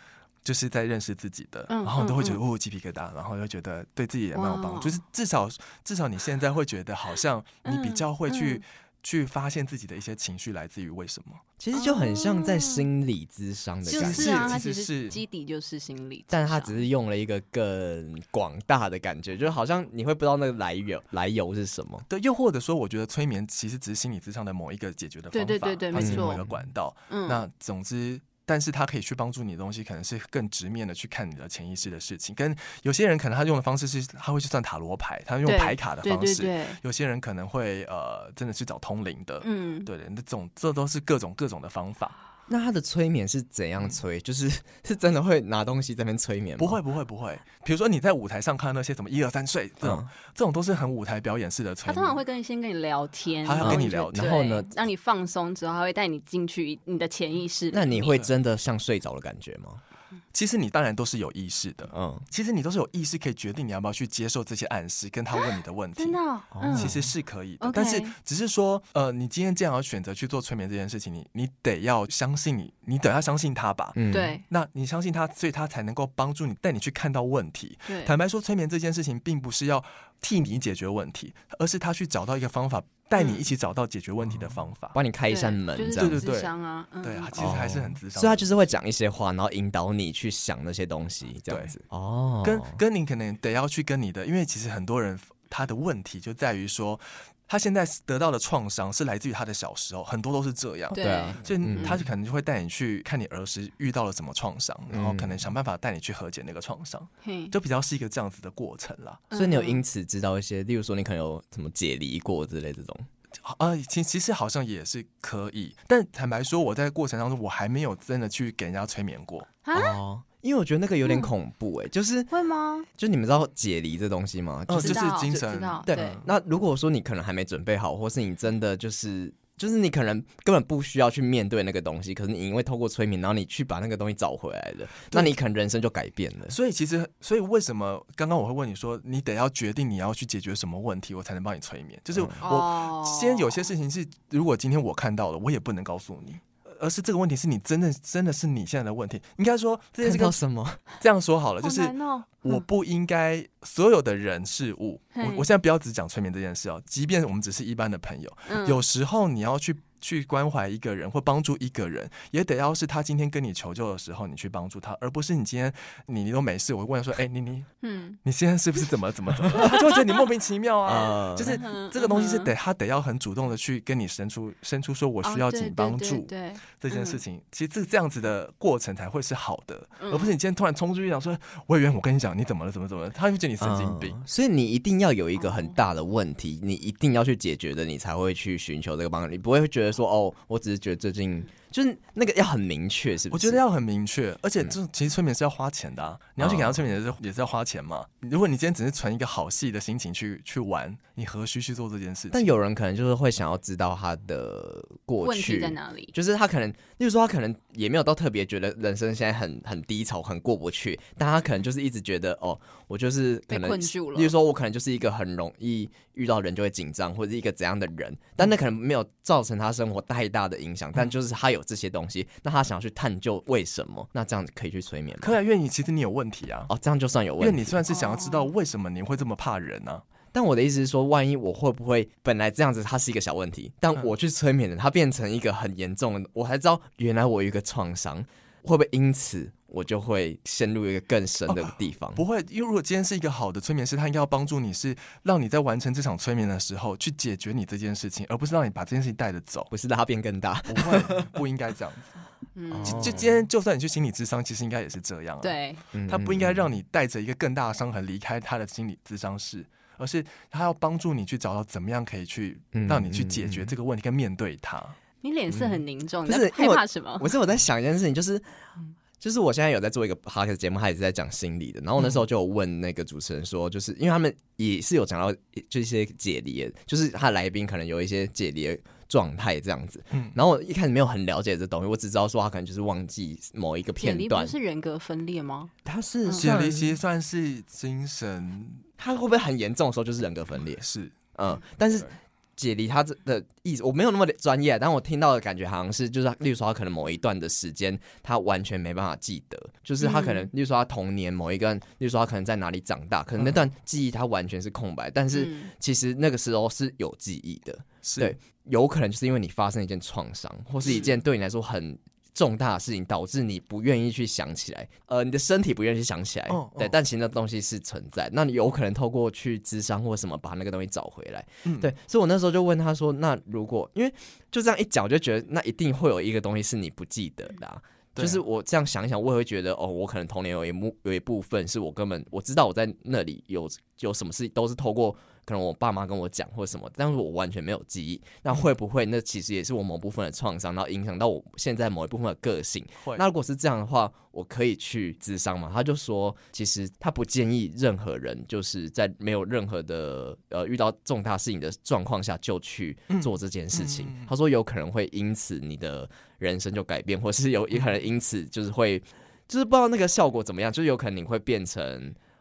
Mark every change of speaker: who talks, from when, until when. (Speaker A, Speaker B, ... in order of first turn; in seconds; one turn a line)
Speaker A: 0.4-11.4
Speaker B: 1.7-2.4
Speaker B: 4.3-5.0
Speaker B: 7.6-8.6
Speaker C: 11.6-14.6
Speaker B: 11.7-12.9
Speaker B: 13.9-16.8
Speaker A: 13.9-15.2
Speaker C: 16.3-22.1
Speaker A: 22.1-42.1
Speaker B: 25.3-26.4
Speaker C: 25.9-26.6
Speaker B: 27.1-27.4
Speaker B: 35.4-36.8
Speaker B: 39.4-39.9
Speaker C: 42.5-46.8
Speaker A: 46.6-52.2
Speaker C: 49.8-50.1
Speaker B: 51.9-58.2
Speaker A: 53.4-54.4
Speaker C: 53.6-54.7
Speaker C: 57.7-59.8
Speaker A: 60.3-66.2
Speaker C: 61.9-62.2
Speaker B: 66.0-66.9
Speaker C: 66.5-67.1
Speaker A: 66.7-85.0
Speaker B: 67.6-68.1
Speaker C: 74.0-74.3
Speaker B: 74.1-74.4
Speaker B: 77.8-78.1
Speaker B: 83.2-83.4
Speaker C: 84.9-86.2
Speaker B: 85.3-87.5
Speaker A: 86.0-86.5
Speaker A: 87.0-88.5
Speaker C: 87.3-92.8
Speaker A: 91.5-91.8
Speaker A: 92.4-109.2
Speaker B: 100.9-102.0
Speaker C: 101.0-102.0
Speaker C: 104.9-105.5
Speaker B: 107.2-107.5
Speaker B: 109.3-109.8
Speaker C: 109.3-113.1
Speaker A: 113.4-119.5
Speaker B: 119.6-120.0
Speaker C: 119.7-122.3
Speaker B: 121.0-121.3
Speaker B: 122.3-122.9
Speaker C: 122.9-136.6
Speaker A: 124.7-126.3
Speaker B: 124.8-126.2
Speaker A: 135.1-135.3
Speaker A: 136.5-150.4
Speaker C: 142.1-142.4
Speaker B: 142.4-143.6
Speaker C: 150.0-150.8
Speaker A: 150.9-167.7
Speaker B: 151.6-152.6
Speaker B: 155.1-155.5
Speaker B: 158.5-158.8
Speaker B: 167.8-168.2
Speaker A: 168.2-184.2
Speaker B: 169.6-169.9
Speaker C: 170.8-171.6
Speaker B: 171.4-172.5
Speaker B: 175.2-177.2
Speaker B: 180.0-180.3
Speaker C: 183.6-193.6
Speaker B: 185.4-185.7
Speaker A: 193.3-202.5
Speaker C: 196.4-196.8
Speaker C: 202.3-225.3
Speaker B: 205.2-206.1
Speaker B: 213.5-214.3
Speaker A: 225.2-226.7
Speaker C: 226.7-227.8
Speaker A: 227.4-230.0
Speaker B: 227.9-228.5
Speaker C: 230.3-242.2
Speaker A: 241.5-249.7
Speaker C: 249.7-251.3
Speaker A: 250.7-252.2
Speaker B: 252.6-253.2
Speaker C: 252.7-253.3
Speaker A: 252.8-264.9
Speaker B: 255.4-255.8
Speaker C: 255.9-256.7
Speaker C: 262.7-263.7
Speaker B: 265.2-267.3
Speaker C: 265.5-268.4
Speaker C: 269.2-284.5
Speaker B: 284.0-285.7
Speaker C: 285.8-287.0
Speaker B: 286.2-286.5
Speaker A: 286.4-288.8
Speaker C: 289.0-290.8
Speaker A: 290.8-292.1
Speaker C: 291.3-362.2
Speaker B: 300.0-300.5
Speaker A: 303.4-303.6
Speaker B: 305.3-305.7
Speaker A: 308.0-308.3
Speaker A: 316.5-316.9
Speaker A: 321.6-321.9
Speaker A: 328.1-328.4
Speaker A: 353.1-354.3